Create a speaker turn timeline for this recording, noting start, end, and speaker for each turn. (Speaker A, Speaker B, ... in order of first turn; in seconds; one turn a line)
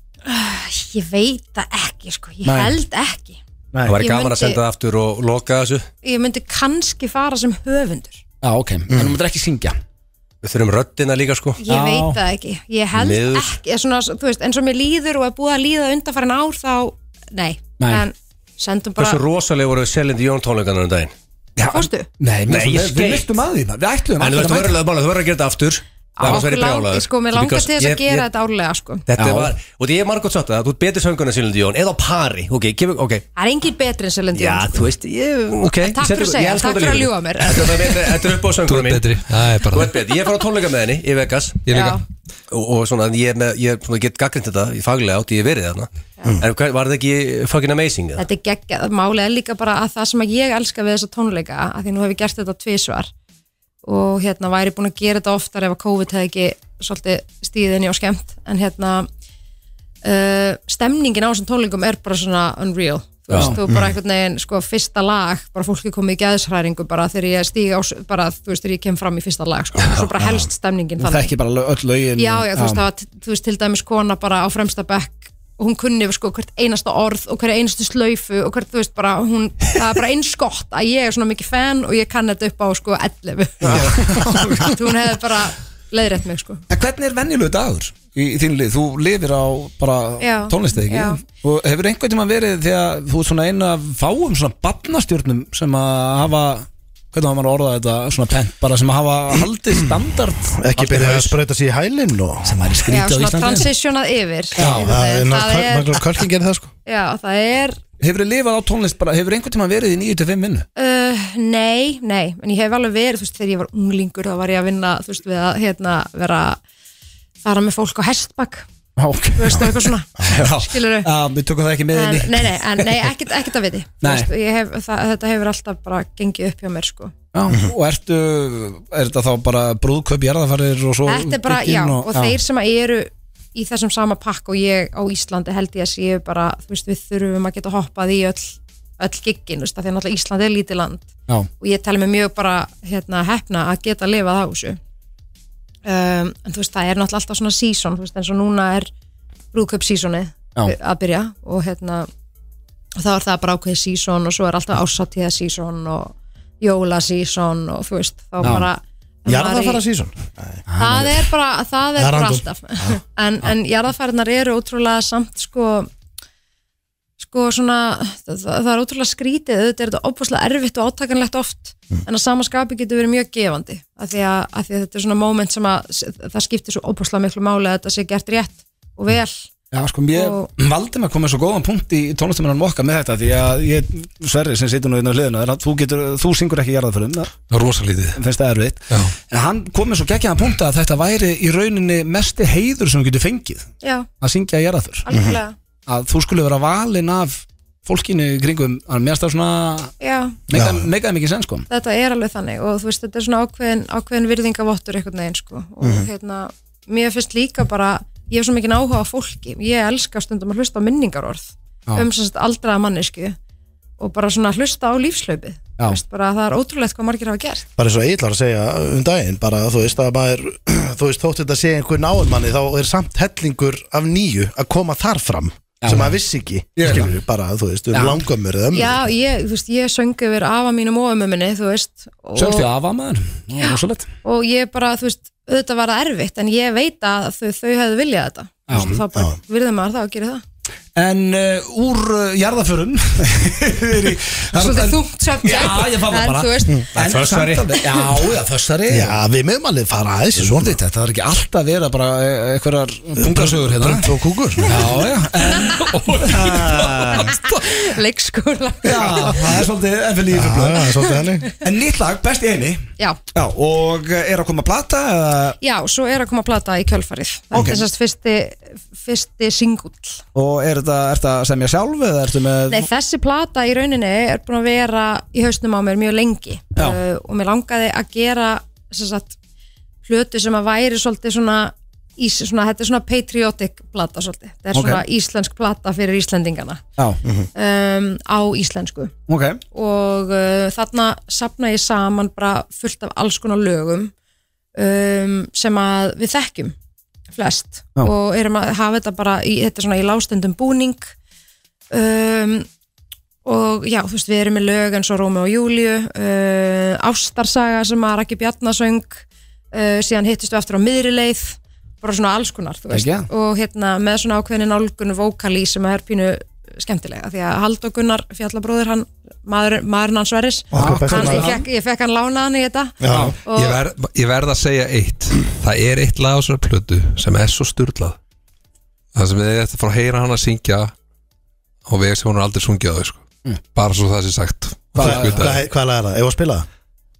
Speaker A: 0.2-3.4
Speaker B: 2.4-2.8
Speaker C: 3.9-5.9
Speaker A: 4.0-4.6
Speaker A: 6.0-8.2
Speaker B: 8.4-9.8
Speaker D: 8.9-9.1
Speaker C: 10.4-11.6
Speaker A: 11.6-19.2
Speaker B: 11.7-12.2
Speaker C: 12.9-13.5
Speaker B: 17.8-18.0
Speaker C: 19.0-21.1
Speaker B: 21.6-24.8
Speaker A: 21.7-22.1
Speaker C: 22.5-23.4
Speaker C: 24.2-28.3
Speaker A: 26.2-29.0
Speaker C: 29.1-33.2
Speaker B: 29.2-29.5
Speaker A: 33.4-34.9
Speaker C: 34.3-41.6
Speaker A: 35.6-38.0
Speaker E: 38.7-40.0
Speaker E: 41.7-42.0
Speaker A: 41.7-42.0
Speaker C: 42.5-45.9
Speaker C: 46.4-48.2
Speaker A: 48.2-53.1
Speaker A: 53.8-59.1
Speaker A: 60.0-71.3
Speaker B: 63.3-63.6
Speaker D: 63.6-63.9
Speaker B: 71.0-72.8
Speaker A: 72.2-86.6
Speaker B: 83.6-84.7
Speaker B: 86.7-101.3
Speaker A: 90.2-91.2
Speaker D: 100.6-102.5
Speaker B: 102.4-103.7
Speaker A: 102.9-106.0
Speaker B: 104.6-104.9
Speaker D: 104.7-106.7
Speaker A: 106.8-107.8
Speaker B: 108.0-110.7
Speaker A: 110.8-116.6
Speaker A: 117.4-118.7
Speaker B: 119.0-123.0
Speaker A: 119.3-121.1
Speaker A: 121.9-127.1
Speaker B: 124.0-124.3
Speaker B: 127.3-132.4
Speaker A: 131.0-141.1
Speaker A: 141.6-144.8
Speaker A: 145.8-148.9
Speaker A: 149.5-152.1
Speaker A: 153.0-159.8
Speaker B: 158.4-158.7
Speaker D: 159.3-160.7
Speaker B: 160.7-161.1
Speaker A: 160.8-165.9
Speaker D: 161.9-162.9
Speaker A: 167.2-179.5
Speaker B: 179.7-187.4
Speaker A: 180.1-180.5
Speaker E: 187.5-188.2
Speaker B: 188.1-193.7
Speaker A: 193.8-194.1
Speaker B: 194.2-195.1
Speaker A: 195.1-195.5
Speaker D: 195.1-195.4
Speaker B: 195.9-199.9
Speaker A: 200.0-200.4
Speaker B: 200.5-201.7
Speaker D: 200.5-200.9
Speaker A: 201.7-213.3
Speaker D: 205.8-206.1
Speaker A: 214.0-217.7
Speaker D: 217.8-229.0
Speaker B: 225.8-226.2
Speaker B: 226.8-227.1
Speaker B: 227.9-228.2
Speaker A: 228.7-232.7
Speaker B: 232.3-234.1
Speaker A: 233.6-240.4
Speaker B: 238.7-239.0
Speaker D: 238.7-239.3
Speaker B: 240.9-249.2
Speaker A: 244.5-246.9
Speaker C: 246.9-248.2
Speaker D: 248.9-250.8
Speaker B: 250.4-256.9
Speaker D: 253.2-254.9
Speaker A: 255.4-255.9
Speaker E: 255.8-257.6
Speaker C: 256.3-257.1
Speaker A: 257.1-259.6
Speaker B: 258.8-260.9
Speaker D: 260.3-261.5
Speaker B: 261.6-265.6
Speaker A: 265.6-270.2
Speaker B: 267.5-267.8
Speaker B: 270.3-272.9
Speaker A: 272.7-279.3
Speaker A: 280.0-286.8
Speaker B: 284.7-285.0
Speaker A: 287.6-289.1
Speaker B: 289.3-289.6
Speaker A: 289.7-294.1
Speaker A: 294.7-296.7
Speaker A: 297.3-301.1
Speaker A: 301.9-302.7
Speaker A: 303.4-323.8
Speaker B: 312.9-313.3
Speaker D: 320.7-321.5
Speaker B: 320.8-321.6
Speaker D: 323.0-323.4
Speaker B: 323.1-323.4
Speaker E: 323.5-328.2
Speaker E: 329.1-330.9
Speaker E: 331.9-335.6
Speaker B: 334.9-335.4
Speaker D: 335.0-336.6